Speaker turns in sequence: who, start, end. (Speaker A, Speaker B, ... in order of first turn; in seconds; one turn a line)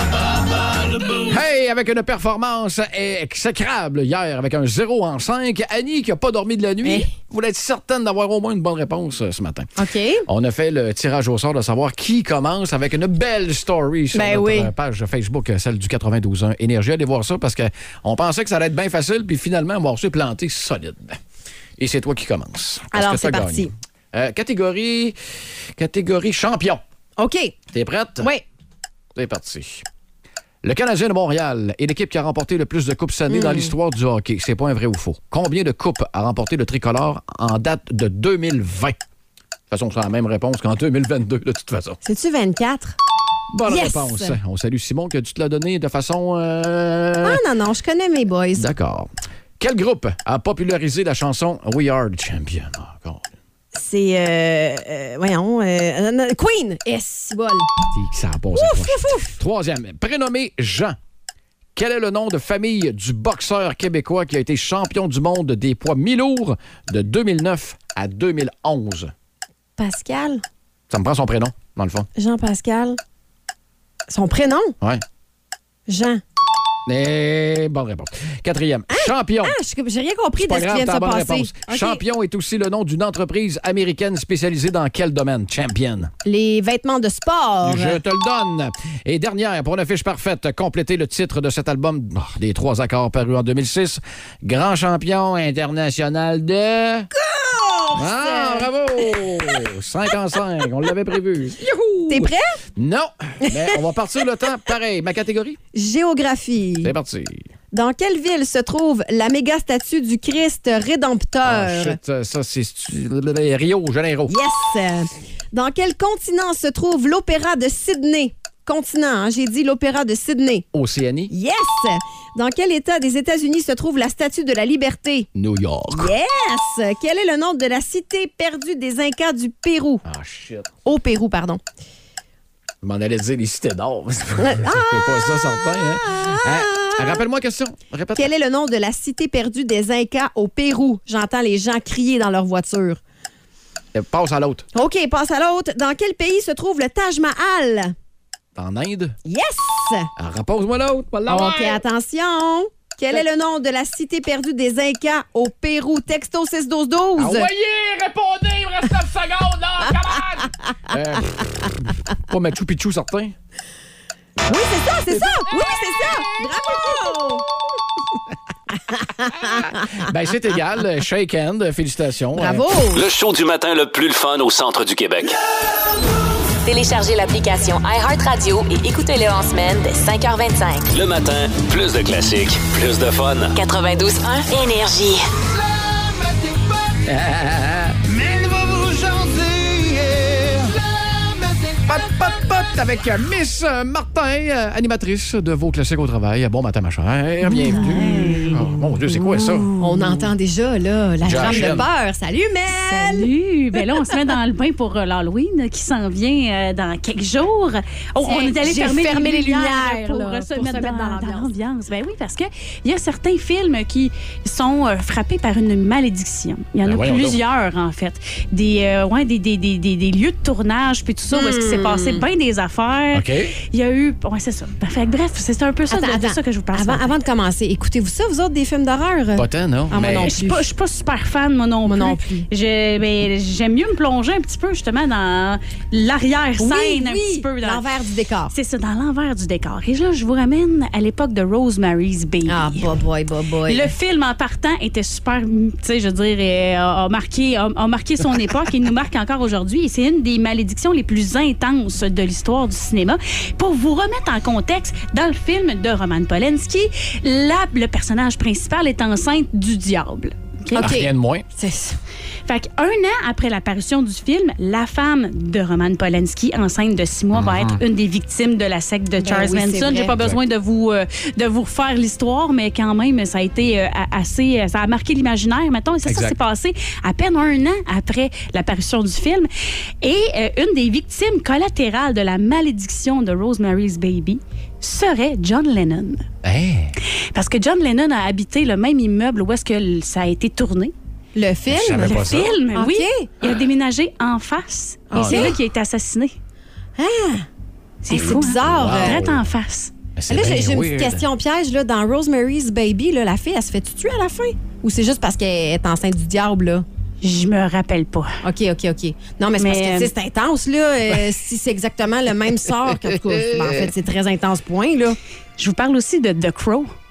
Speaker A: 1.3-9.7
Speaker B: 6.8-7.1
Speaker B: 9.8-10.3
Speaker A: 10.3-21.2
Speaker B: 14.1-14.7
Speaker A: 21.8-25.2
Speaker B: 22.9-23.7
Speaker A: 25.8-26.8
Speaker B: 27.2-27.6
Speaker A: 27.7-28.3
Speaker B: 28.2-28.4
Speaker A: 29.1-29.9
Speaker A: 30.6-39.0
Speaker B: 33.3-33.7
Speaker A: 39.7-42.0
Speaker B: 42.0-43.0
Speaker A: 43.5-47.4
Speaker B: 43.7-44.4
Speaker B: 47.2-48.6
Speaker A: 48.6-53.3
Speaker B: 53.7-57.7
Speaker A: 57.9-61.0
Speaker B: 58.5-59.4
Speaker A: 61.8-69.1
Speaker B: 69.8-70.4
Speaker A: 70.9-72.1
Speaker B: 72.2-73.0
Speaker B: 74.1-74.8
Speaker B: 75.9-76.2
Speaker A: 76.9-79.6
Speaker B: 78.9-82.0
Speaker A: 80.4-86.1
Speaker B: 86.2-88.0
Speaker A: 87.6-97.1
Speaker B: 97.2-98.7
Speaker A: 97.9-105.6
Speaker B: 101.6-102.6
Speaker B: 105.8-106.9
Speaker A: 106.8-107.5
Speaker B: 107.7-112.0
Speaker A: 111.4-114.4
Speaker B: 114.3-120.7
Speaker A: 120.7-121.3
Speaker B: 121.3-125.3
Speaker A: 125.3-126.1
Speaker B: 125.9-130.0
Speaker A: 130.1-130.7
Speaker B: 130.9-131.6
Speaker A: 132.8-138.3
Speaker B: 134.4-137.2
Speaker B: 138.2-143.0
Speaker A: 143.9-144.7
Speaker B: 144.7-147.9
Speaker A: 148.6-149.2
Speaker B: 149.2-150.1
Speaker A: 150.2-151.8
Speaker B: 151.3-157.5
Speaker A: 157.2-163.4
Speaker B: 164.4-167.4
Speaker A: 165.2-167.2
Speaker B: 169.0-169.7
Speaker A: 169.4-172.7
Speaker B: 172.3-173.1
Speaker C: 172.9-175.4
Speaker D: 176.7-180.9
Speaker C: 180.9-183.6
Speaker D: 183.5-185.2
Speaker A: 187.0-190.8
Speaker A: 191.6-199.7
Speaker B: 197.7-198.7
Speaker E: 197.7-198.6
Speaker E: 199.4-200.3
Speaker B: 199.8-203.3
Speaker A: 201.2-201.9
Speaker E: 202.7-227.1
Speaker B: 208.2-211.5
Speaker A: 216.8-217.4
Speaker B: 221.3-222.2
Speaker A: 223.1-223.5
Speaker B: 225.9-230.7
Speaker A: 229.4-230.3
Speaker E: 230.2-237.8
Speaker B: 231.8-232.5
Speaker B: 236.6-238.5
Speaker E: 238.5-242.9
Speaker B: 242.5-243.9
Speaker E: 243.7-260.9
Speaker B: 260.7-262.0
Speaker A: 260.8-261.5
Speaker E: 262.5-279.5
Speaker A: 267.3-267.8
Speaker B: 269.2-270.3
Speaker A: 276.1-276.4
Speaker E: 280.0-286.2
Speaker A: 286.4-286.9
Speaker E: 287.3-290.9
Speaker B: 291.4-292.2
Speaker A: 291.7-292.5
Speaker E: 292.0-296.3
Speaker B: 292.7-293.3
Speaker B: 295.1-295.6
Speaker A: 295.1-295.6
Speaker B: 297.0-297.5
Speaker E: 298.0-299.9
Speaker B: 298.1-299.2
Speaker A: 298.1-299.4
Speaker A: 300.2-301.3
Speaker B: 300.3-306.9
Speaker E: 307.2-308.4
Speaker B: 308.4-315.2
Speaker E: 309.6-310.1
Speaker A: 312.9-313.9
Speaker E: 315.6-316.9